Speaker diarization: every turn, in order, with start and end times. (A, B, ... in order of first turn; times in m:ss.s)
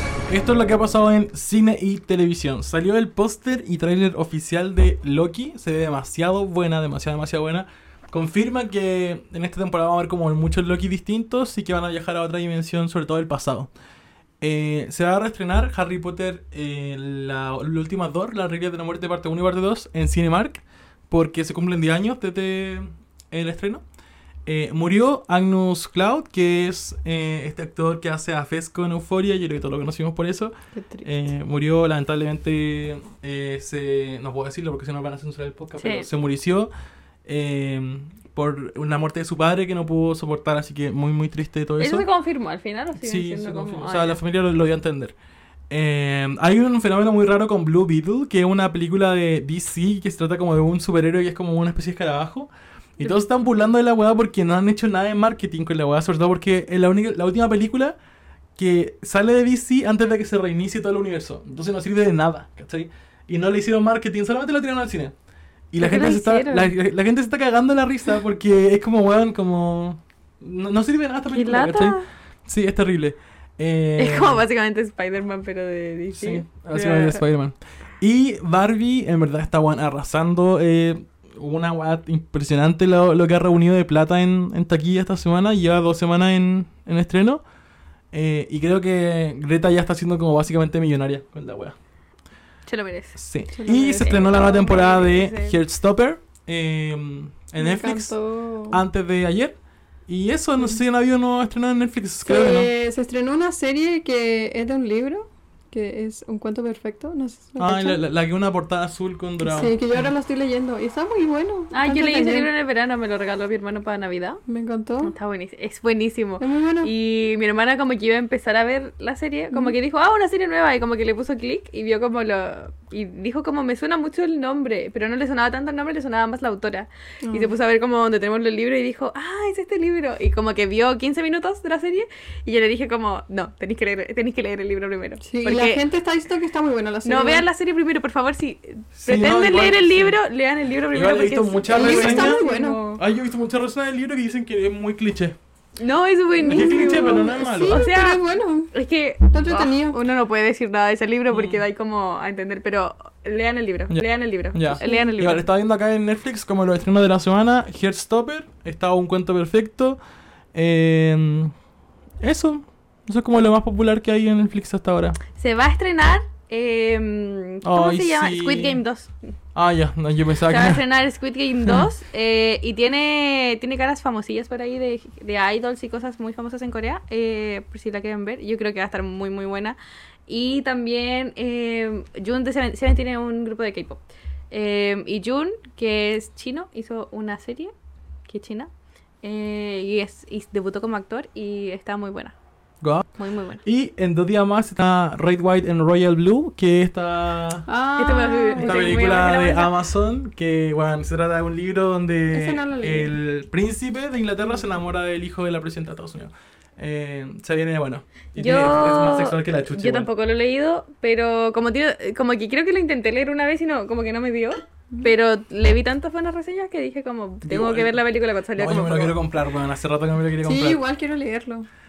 0:00.3-0:13.7 A
0:14.4-0:23.8 A
0:24.4-0:36.7 A
0:30.7-0:31.1 B
0:35.8-0:36.1 C
0:37.2-0:42.0 A
0:41.8-0:44.2 C
0:43.0-0:45.1 A
0:45.7-0:58.0 A
0:58.6-1:05.1 A
1:05.7-1:14.4 A
1:05.8-1:06.7 C
1:11.3-1:12.1 C
1:14.0-1:17.2 C
1:16.1-1:27.4 A
1:28.1-1:31.7 A
1:32.6-1:35.6 C
1:33.2-1:38.1 A
1:33.5-1:34.3 B
1:37.6-1:38.8 B
1:38.7-1:39.6 A
1:40.1-1:42.7 A
1:42.2-1:48.0 B
1:47.6-1:50.1 A
1:49.4-1:52.5 B
1:51.7-1:54.4 C
1:54.5-1:55.1 B
1:55.0-2:15.8 C
1:56.4-1:56.9 B
2:07.2-2:07.5 B
2:15.2-2:17.4 B
2:17.0-2:23.0 C
2:19.0-2:20.2 A
2:20.9-2:22.4 A
2:21.7-2:22.8 B
2:22.9-2:25.4 A
2:25.8-2:35.4 C
2:26.4-2:28.7 B
2:26.5-2:27.8 A
2:29.3-2:30.0 B
2:31.3-2:31.6 A
2:33.9-2:40.0 A
2:34.8-2:35.1 B
2:40.5-2:41.5 A
2:42.2-2:45.2 A
2:45.3-2:49.1 C
2:47.6-2:48.8 A
2:49.5-2:50.8 A
2:50.5-3:07.7 C
3:08.3-3:08.7 C
3:09.2-3:12.3 C
3:12.8-3:13.1 A
3:13.2-3:13.6 C
3:13.6-3:17.7 A
3:17.6-3:19.3 B
3:18.0-3:19.7 C
3:18.6-3:30.1 A
3:22.3-3:23.1 B
3:28.4-3:39.2 C
3:37.4-3:38.0 A
3:38.5-3:40.8 A
3:40.4-3:41.7 B